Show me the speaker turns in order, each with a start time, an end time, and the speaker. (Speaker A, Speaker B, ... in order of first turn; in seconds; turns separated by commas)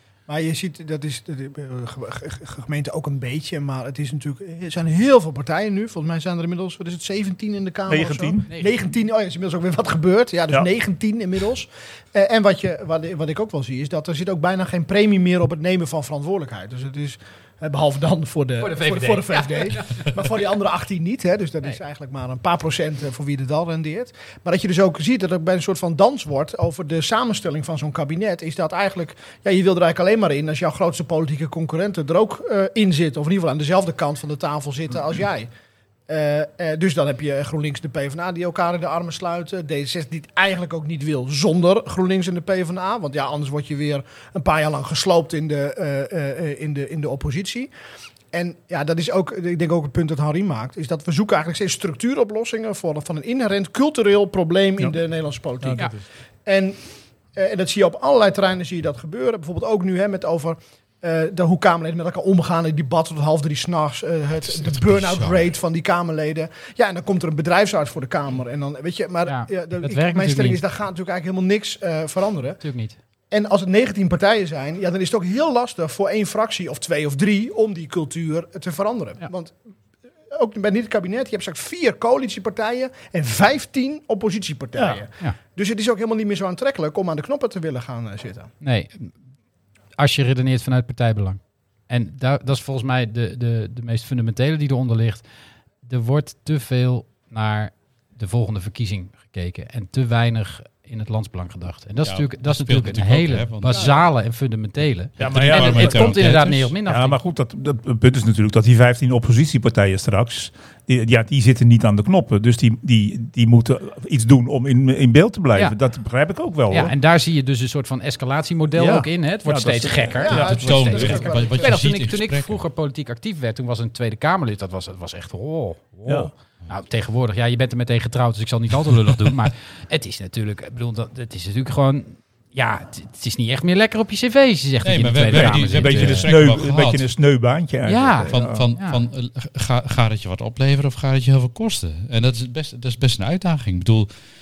Speaker A: 0.3-35.5, Speaker B: 7.9-8.5, Speaker C: 8.5-8.7, Speaker C: 18.6-19.8, Speaker A: 36.1-47.7, Speaker A: 48.3-55.9, Speaker B: 55.6-55.9, Speaker A: 56.5-56.8, Speaker A: 57.3-72.6, Speaker D: 64.4-65.5, Speaker C: 69.2-70.6, Speaker C: 72.6-73.0, Speaker A: 73.3-79.5, Speaker A: 80.3-88.5, Speaker C: 88.6-89.1, Speaker C: 90.0-95.2, Speaker C: 95.8-107.2, Speaker D: 102.0-103.9, Speaker B: 105.2-106.3, Speaker D: 105.2-106.7, Speaker B: 106.9-116.9, Speaker C: 116.7-136.3, Speaker B: 118.7-120.6, Speaker A: 120.2-121.7, Speaker D: 120.3-122.6, Speaker B: 126.0-126.3, Speaker D: 134.8-137.1, Speaker B: 135.3-138.7, Speaker C: 137.8-139.0, Speaker D: 138.3-144.1